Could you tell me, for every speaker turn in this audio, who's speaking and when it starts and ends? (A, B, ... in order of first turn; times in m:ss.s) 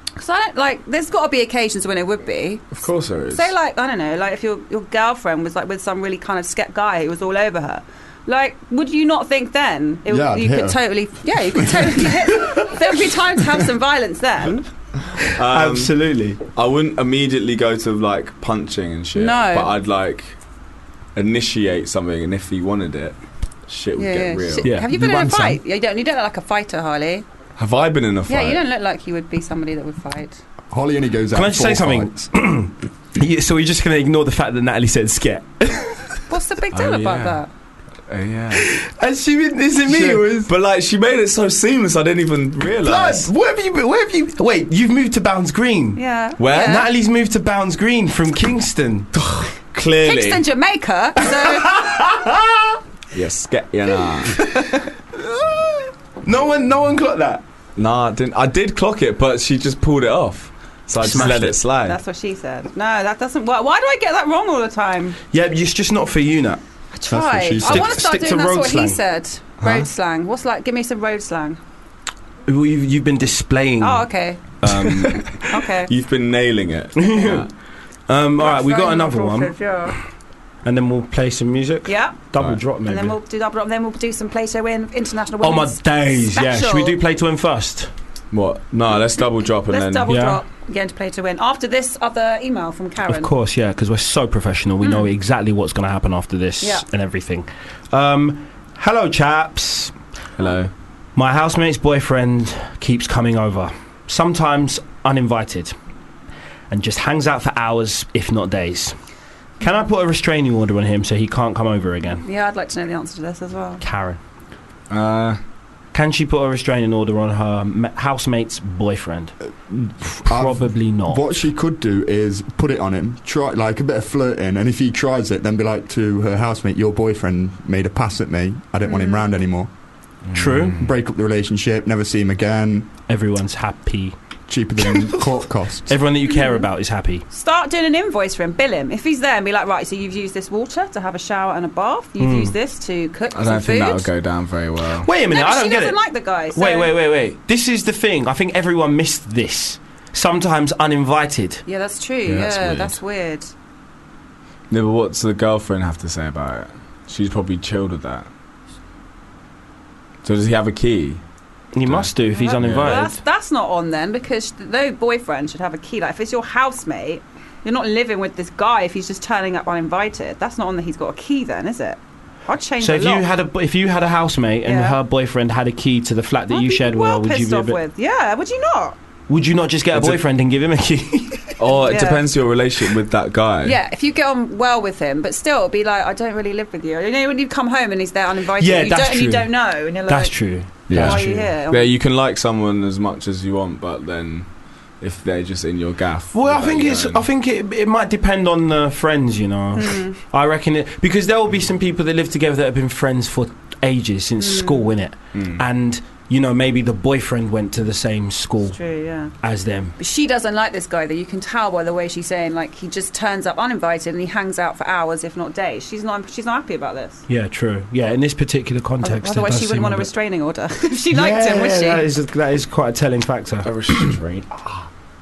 0:00.2-0:14.6 A
0:02.7-0:03.5 B
0:10.1-0:12.3 C
0:15.2-0:16.4 D
0:15.2-0:20.4 B
0:19.1-0:19.7 A
0:21.2-0:24.7 B
0:24.0-0:27.2 A
0:24.6-0:24.9 D
0:24.9-0:25.6 C
0:27.6-0:28.6 B
0:28.3-0:30.4 A
0:30.7-0:32.3 C
0:31.3-0:36.2 D
0:36.3-0:37.5 A
0:36.7-0:37.4 B
0:38.1-0:38.7 B
0:38.6-0:40.5 D
0:40.0-0:43.3 B
0:42.8-0:49.1 D
0:46.0-0:46.9 A
0:46.4-0:46.8 B
0:49.1-0:50.4 B
0:50.0-0:52.0 A
0:51.2-0:52.8 D
0:53.1-0:54.5 B
0:54.0-0:54.9 A
0:56.2-0:57.4 D
0:57.8-1:02.0 B
1:01.0-1:01.6 D
1:01.8-1:05.2 A
1:05.3-1:06.6 D
1:06.9-1:11.6 A
1:07.1-1:08.0 C
1:07.6-1:09.0 D
1:09.6-1:09.9 B
1:12.5-1:15.2 D
1:13.8-1:14.4 A
1:14.7-1:17.5 B
1:15.4-1:15.9 A
1:17.0-1:17.5 D
1:18.1-1:19.6 D
1:18.4-1:20.0 A
1:20.6-1:23.2 D
1:21.9-1:22.2 A
1:22.8-1:27.0 A
1:25.4-1:27.9 D
1:28.3-1:30.1 B
1:29.7-1:33.3 A
1:30.1-1:30.4 D
1:33.1-1:39.9 D
1:34.8-1:35.1 A
1:40.4-1:40.7 B
1:41.2-1:45.8 D
1:46.7-1:49.0 D
1:49.6-1:52.2 D
1:52.2-1:53.8 A
1:53.8-1:54.2 D
1:54.9-1:55.4 B
1:55.9-1:59.3 D
1:59.7-2:09.7 C
2:00.2-2:01.2 D
2:08.8-2:09.2 A
2:10.3-2:10.9 B
2:10.3-2:10.8 D
2:10.8-2:12.9 C
2:13.1-2:14.2 D
2:14.5-2:16.0 C
2:14.9-2:15.2 D
2:15.9-2:17.3 D
2:16.3-2:16.7 A
2:17.3-2:24.1 A
2:22.2-2:22.5 D
2:23.3-2:25.1 B
2:25.0-2:26.0 D
2:25.3-2:26.9 A
2:26.5-2:31.6 D
2:31.7-2:33.5 A
2:32.3-2:33.0 B
2:34.7-2:38.3 B
2:40.2-2:41.2 B
2:41.7-2:43.2 D
2:41.8-2:43.0 B
2:42.3-2:53.3 A
2:52.8-2:57.8 D
2:54.6-2:55.0 A
2:56.5-2:59.0 A
2:59.3-3:01.6 D
2:59.9-3:00.2 B
3:01.6-3:03.8 B
3:01.8-3:02.3 A
3:03.6-3:11.9 A
3:08.6-3:09.5 D
3:10.0-3:11.5 D
3:10.9-3:17.2 B
3:16.3-3:28.8 D
3:19.8-3:20.2 A
3:24.4-3:24.9 A
3:25.3-3:25.6 B
3:28.7-3:29.3 A
3:29.4-3:29.9 D
3:30.0-3:37.2 A
3:37.3-3:40.1 D
3:39.0-3:42.0 A
3:41.1-3:43.7 D
3:43.6-3:44.9 B